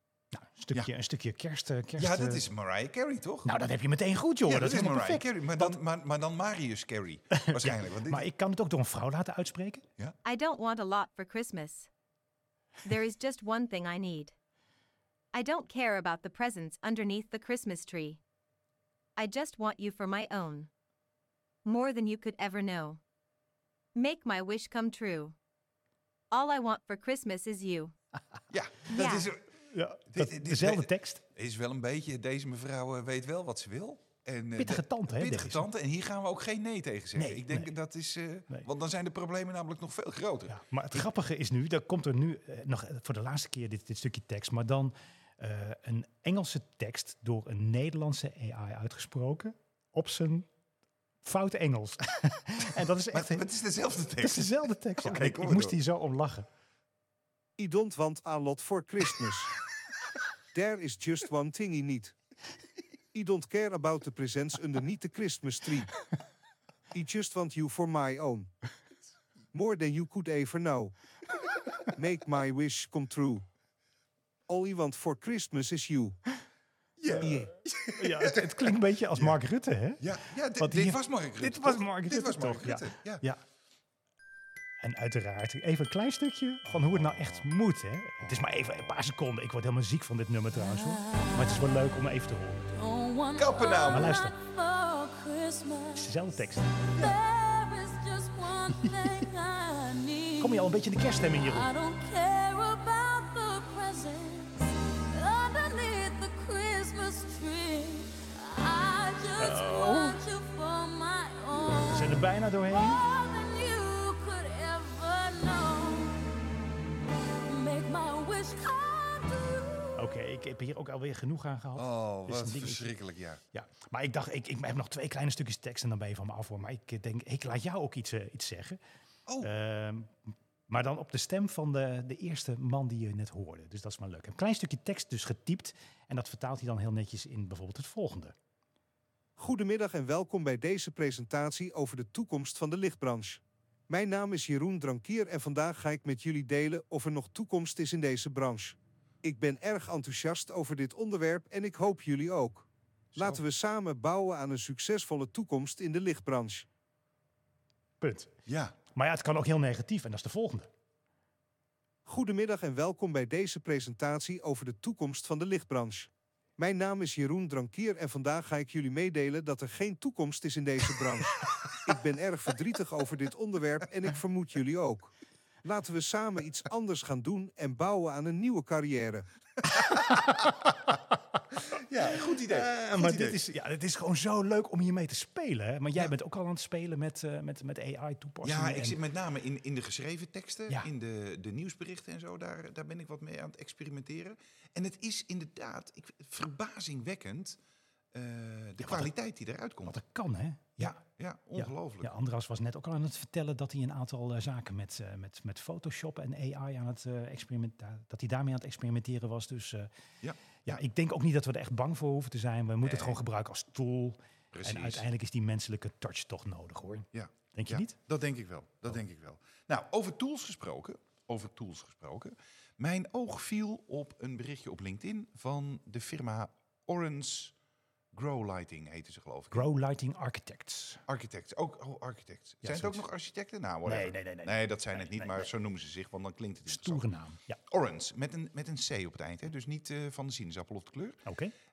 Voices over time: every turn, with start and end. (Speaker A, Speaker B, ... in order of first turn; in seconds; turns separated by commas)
Speaker A: 0.3-2.4, Speaker B: 2.0-3.5, Speaker A: 3.4-5.8, Speaker B: 4.5-8.2, Speaker A: 7.3-9.8, Speaker C: 10.2-11.9, Speaker C: 12.8-14.3, Speaker C: 15.3-18.2, Speaker C: 19.2-20.7, Speaker C: 21.6-23.0, Speaker C: 23.9-25.3, Speaker C: 26.3-27.9, Speaker B: 28.5-29.5, Speaker C: 28.9-29.3, Speaker A: 29.7-31.2, Speaker B: 30.1-41.0, Speaker A: 34.6-35.7, Speaker A: 37.1-37.7, Speaker A: 40.5-50.5, Speaker A: 51.2-53.5, Speaker B: 53.1-55.8, Speaker A: 54.2-56.5, Speaker D: 57.6-59.5, Speaker D: 60.5-62.1, Speaker D: 63.1-65.9, Speaker D: 66.9-68.5, Speaker D: 69.5-70.9, Speaker D: 71.9-73.4, Speaker D: 74.5-76.2, Speaker B: 77.0-79.4, Speaker A: 77.1-80.0, Speaker B: 80.0-83.2, Speaker A: 80.6-83.4, Speaker A: 84.8-92.7, Speaker B: 86.7-87.5, Speaker B: 88.2-88.9, Speaker E: 90.7-91.6, Speaker E: 92.7-96.1, Speaker B: 93.3-94.2, Speaker A: 93.9-94.3, Speaker A: 95.9-96.9, Speaker E: 96.9-116.3, Speaker A: 100.4-101.7, Speaker A: 109.4-110.2, Speaker A: 111.9-113.0, Speaker E: 117.5-119.8, Speaker A: 120.0-122.9, Speaker B: 121.7-123.4, Speaker A: 123.5-128.8, Speaker B: 129.3-129.5, Speaker A: 129.4-138.3, Speaker D: 139.4-156.7, Speaker B: 153.1-153.4, Speaker A: 158.0-158.3, Speaker B: 158.4-158.7, Speaker A: 158.9-160.7, Speaker D: 162.1-175.1, Speaker D: 175.6-179.2, Speaker A: 179.7-181.0, Speaker B: 181.7-183.5, Speaker A: 182.0-189.0, Speaker B: 188.4-197.6, Speaker B: 198.1-200.0, Speaker A: 198.8-199.1, Speaker A: 199.8-201.0, Speaker B: 200.8-202.2, Speaker A: 201.6-209.9, Speaker B: 210.2-210.8, Speaker A: 210.6-217.9, Speaker B: 212.8-213.2, Speaker B: 214.5-215.1, Speaker B: 217.1-227.5, Speaker B: 228.1-229.7, Speaker A: 229.5-231.0, Speaker B: 231.1-237.1, Speaker A: 232.6-233.0, Speaker A: 233.8-235.5, Speaker A: 236.7-237.6, Speaker B: 237.7-241.2, Speaker A: 241.2-241.5